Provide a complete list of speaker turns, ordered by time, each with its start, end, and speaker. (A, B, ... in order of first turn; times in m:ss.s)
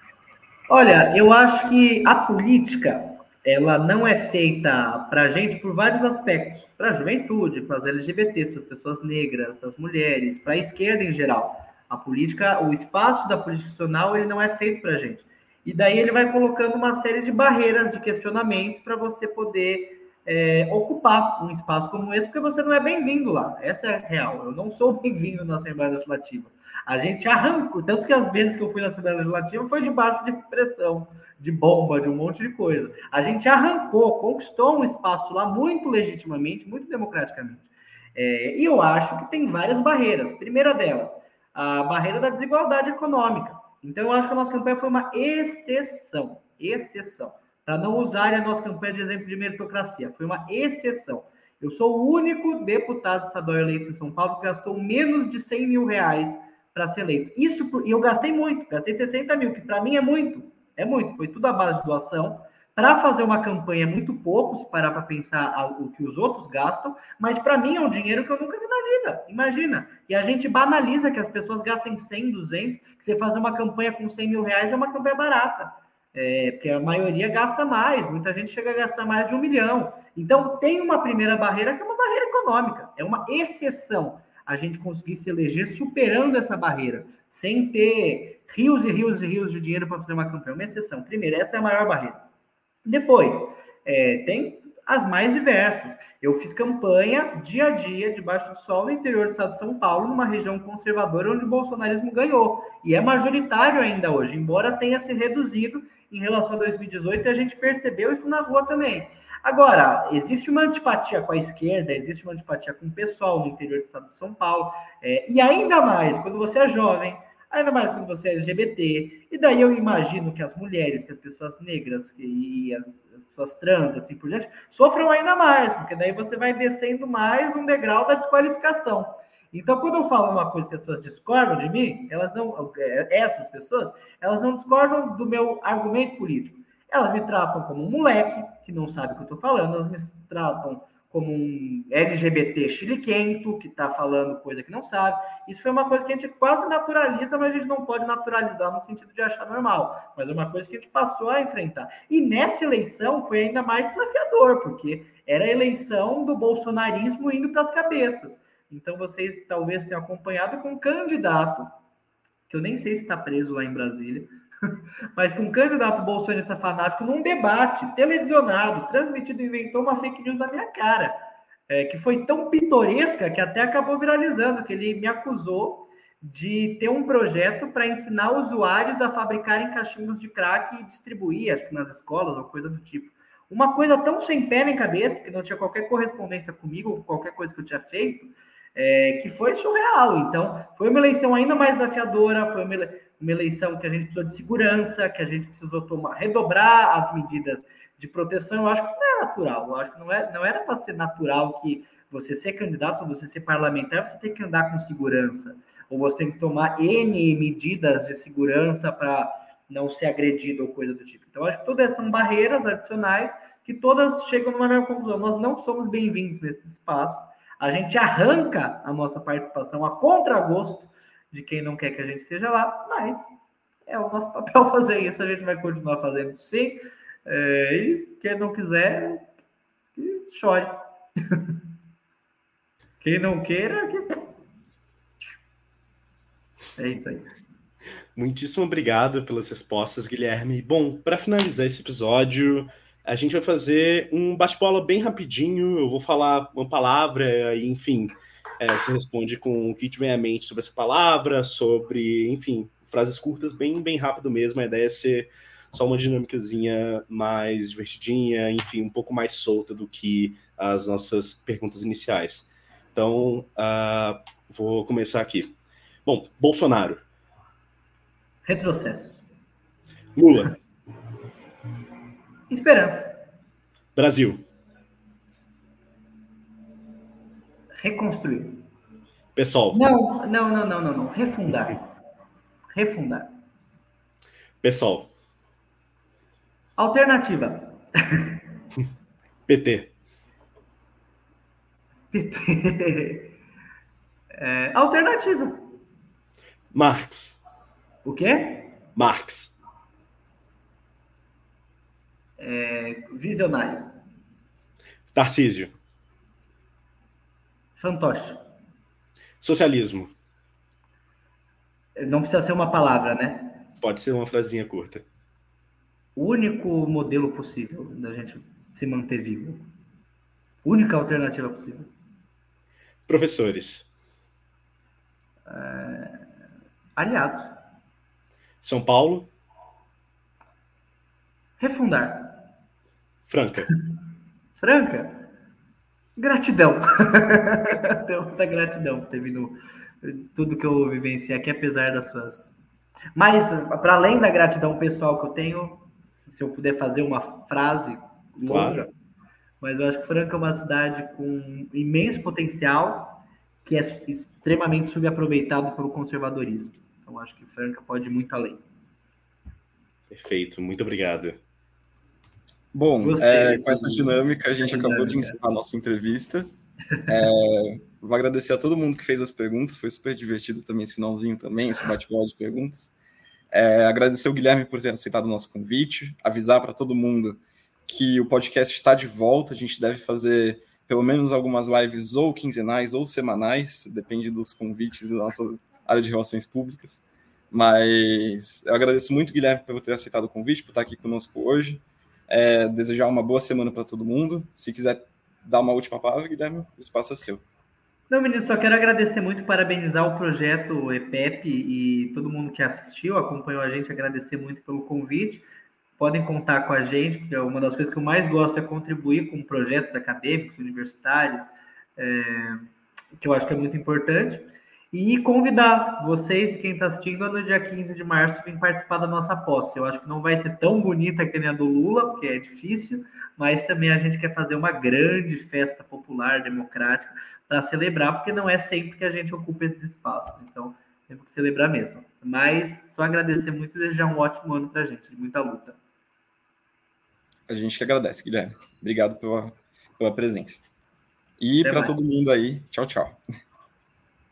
0:00.7-1:32.2 A
1:32.8-2:41.7 A
2:42.5-2:44.3 A
2:45.2-2:51.2 A
2:51.7-3:43.3 A
3:43.9-3:49.3 A
3:50.0-3:50.8 A
3:53.0-3:54.2 A
3:56.8-3:57.3 A
3:58.2-4:27.0 B
4:28.5-4:29.2 A
4:30.2-4:30.6 B
4:32.5-4:33.1 A
4:34.0-4:34.4 B
4:37.8-4:38.6 A
4:39.4-4:39.8 B
4:39.7-4:41.8 A
4:42.7-4:43.3 A
4:44.6-4:45.1 B
4:46.8-4:48.4 A
4:49.5-4:49.9 B
4:52.1-4:53.3 A
4:54.4-4:55.7 A
4:56.7-4:57.4 B
4:58.0-4:58.8 A
4:59.0-4:59.5 B
5:02.4-5:03.9 A
5:05.1-5:05.7 B
5:07.8-5:08.4 A
5:09.4-5:10.1 B
5:12.0-5:13.6 A
5:13.8-5:15.0 B
5:16.2-5:19.7 A
5:20.6-5:21.9 A
5:23.1-5:23.9 B
5:25.5-5:26.3 A
5:27.0-5:27.5 A
5:28.6-5:29.3 B
5:31.6-5:32.4 A
5:33.3-5:33.7 B
5:34.6-5:35.3 A
5:36.2-5:42.5 A
5:43.2-5:48.9 A
5:48.5-5:48.8 B
5:49.6-5:58.6 A
6:00.1-6:01.4 B
6:02.7-6:06.5 C
6:03.0-6:05.4 A
6:07.1-6:12.9 C
6:13.5-6:37.4 C
6:38.1-6:45.4 A
6:46.0-6:52.7 A
6:53.2-7:15.8 A
7:17.5-7:20.6 C
7:21.4-7:23.2 C
7:21.6-7:22.0 A